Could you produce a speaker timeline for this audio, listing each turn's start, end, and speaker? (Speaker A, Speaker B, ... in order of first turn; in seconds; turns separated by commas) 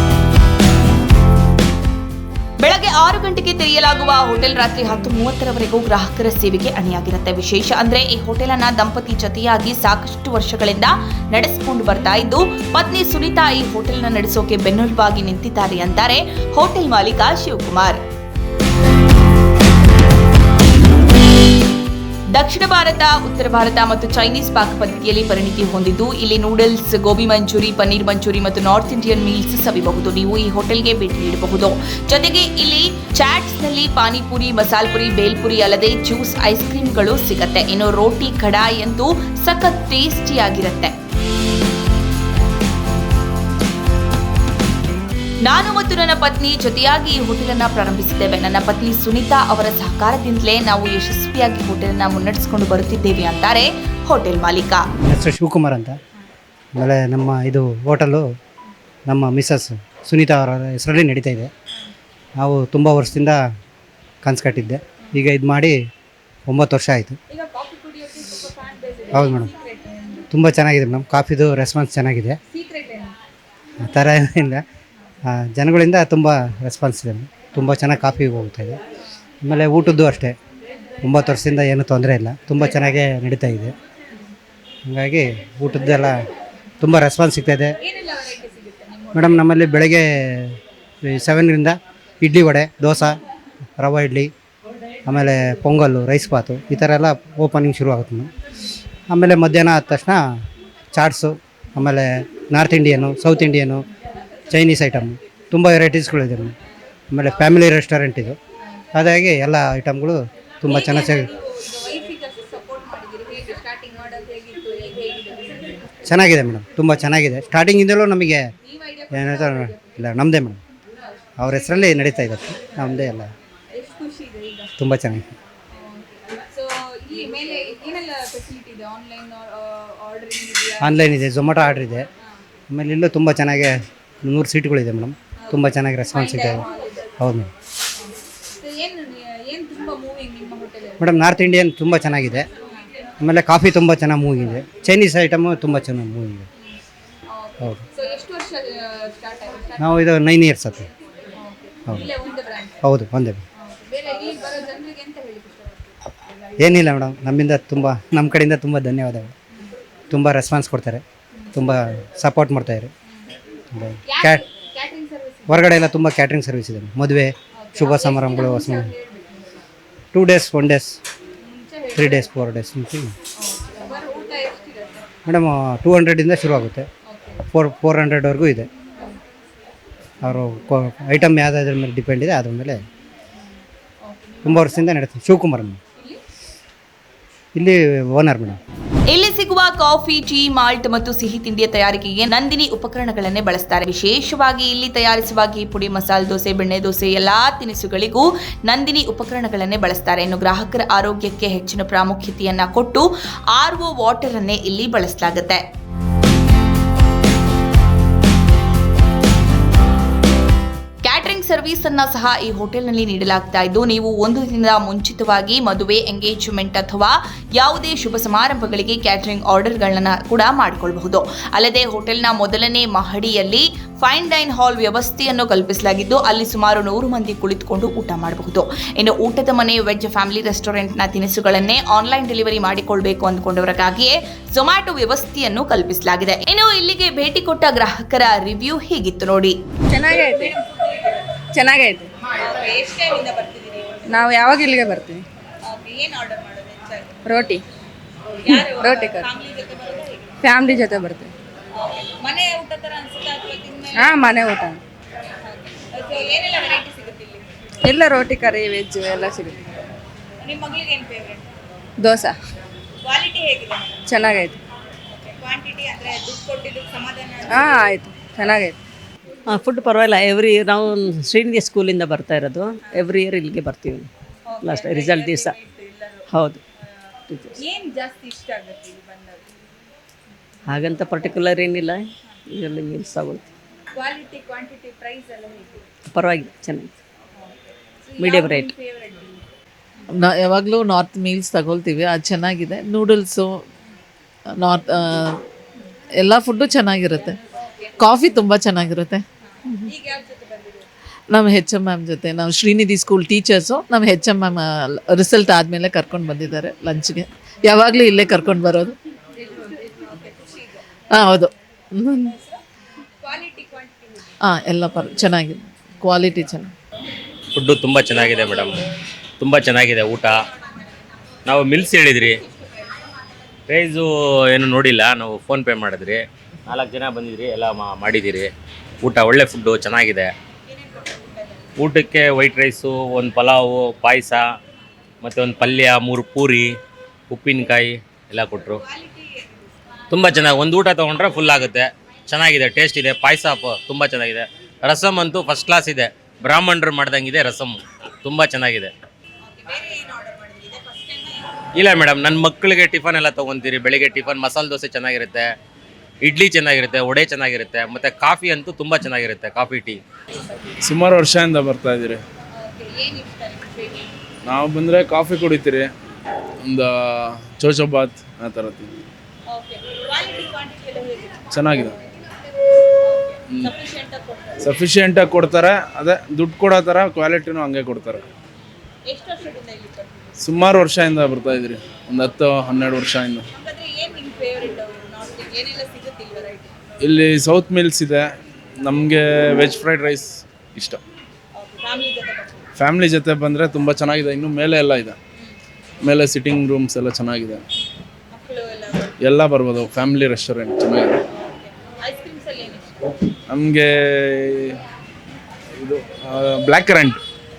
Speaker A: 2.6-18.0, Speaker A: 22.3-40.9, Speaker A: 45.5-54.8, Speaker B: 55.0-56.0, Speaker B: 56.8-58.2, Speaker B: 59.1-61.5, Speaker B: 62.4-63.4, Speaker B: 64.2-65.8, Speaker B: 66.5-67.2, Speaker C: 67.3-70.3, Speaker B: 69.1-69.5, Speaker B: 70.3-72.4, Speaker C: 72.5-73.2, Speaker B: 73.8-74.6, Speaker B: 75.3-78.8, Speaker B: 79.4-80.3, Speaker B: 81.0-83.7, Speaker B: 84.9-86.2, Speaker B: 86.8-87.8, Speaker C: 87.8-89.7, Speaker B: 89.1-93.2, Speaker B: 93.8-94.3, Speaker B: 95.0-98.3, Speaker B: 99.1-100.2, Speaker B: 100.9-103.9, Speaker B: 104.5-106.5, Speaker B: 107.1-108.4, Speaker B: 108.9-111.3, Speaker C: 110.7-115.9, Speaker B: 116.1-118.5, Speaker C: 118.6-120.0, Speaker B: 119.1-120.6, Speaker B: 121.4-123.3, Speaker C: 121.5-122.0, Speaker C: 123.7-124.7, Speaker B: 124.8-125.3, Speaker C: 125.7-130.9, Speaker B: 130.8-132.1, Speaker B: 132.7-136.6, Speaker C: 135.5-137.1, Speaker B: 137.2-137.5, Speaker C: 138.6-141.1, Speaker B: 141.0-142.5, Speaker B: 143.2-146.5, Speaker C: 147.3-149.9, Speaker B: 149.8-150.9, Speaker C: 151.3-152.8, Speaker B: 152.8-153.4, Speaker C: 153.6-156.0, Speaker B: 156.6-159.3, Speaker B: 160.1-161.0, Speaker B: 161.5-162.9, Speaker B: 163.7-164.4, Speaker C: 164.1-165.7, Speaker B: 165.5-168.9, Speaker C: 167.6-169.4, Speaker B: 170.1-171.0, Speaker C: 171.4-172.4, Speaker B: 171.9-173.1, Speaker C: 173.4-175.1, Speaker B: 175.2-176.9, Speaker C: 177.1-177.4, Speaker B: 177.5-178.7, Speaker B: 180.2-182.8, Speaker C: 184.0-184.8, Speaker B: 184.4-185.8, Speaker B: 187.5-188.6, Speaker A: 189.1-205.6, Speaker A: 211.0-239.6, Speaker D: 239.9-240.5, Speaker C: 240.4-241.3, Speaker D: 241.5-242.1, Speaker C: 242.4-244.1, Speaker D: 244.1-245.2, Speaker C: 245.7-247.2, Speaker D: 247.2-247.6, Speaker C: 248.4-250.3, Speaker D: 248.5-249.3, Speaker D: 250.4-251.3, Speaker C: 251.7-254.1, Speaker D: 254.0-254.8, Speaker C: 255.4-257.5, Speaker D: 257.8-259.6, Speaker C: 260.4-261.5, Speaker D: 262.0-262.3, Speaker C: 263.0-264.1, Speaker D: 264.1-264.6, Speaker C: 265.1-267.5, Speaker D: 267.5-268.8, Speaker E: 269.5-274.1, Speaker C: 274.5-276.3, Speaker E: 274.6-275.5, Speaker E: 276.3-276.6, Speaker E: 277.3-277.6, Speaker C: 277.6-279.5, Speaker E: 280.7-283.4, Speaker C: 283.9-285.9, Speaker E: 286.1-286.9, Speaker C: 288.1-289.4, Speaker E: 288.2-288.7, Speaker F: 290.1-293.6, Speaker F: 294.5-295.4, Speaker F: 296.2-297.4, Speaker F: 298.0-299.9, Speaker C: 299.8-300.9, Speaker F: 301.3-308.9, Speaker C: 309.4-310.9, Speaker F: 311.1-312.3, Speaker C: 312.3-312.6, Speaker C: 313.2-314.3, Speaker F: 314.4-316.7, Speaker G: 317.5-318.8, Speaker G: 319.4-320.4, Speaker G: 321.4-322.4, Speaker G: 323.7-330.3, Speaker C: 330.9-331.6, Speaker G: 331.8-334.4, Speaker G: 335.2-336.7, Speaker G: 337.3-338.8, Speaker C: 338.8-339.6, Speaker G: 340.1-348.9, Speaker C: 349.5-351.4, Speaker G: 351.7-355.4, Speaker G: 356.2-360.0, Speaker H: 360.8-362.2, Speaker C: 362.6-364.2, Speaker H: 364.4-365.9, Speaker H: 366.6-368.9, Speaker C: 369.5-371.5, Speaker H: 371.5-371.9, Speaker C: 373.0-374.6, Speaker H: 374.6-378.2, Speaker C: 379.1-380.3, Speaker H: 380.4-383.4, Speaker C: 383.5-386.7, Speaker H: 387.0-391.0, Speaker C: 391.6-392.7, Speaker H: 392.8-395.2, Speaker H: 396.0-397.6, Speaker C: 398.3-399.1, Speaker H: 399.2-401.2, Speaker C: 401.3-403.1, Speaker H: 403.5-404.8, Speaker H: 405.8-407.2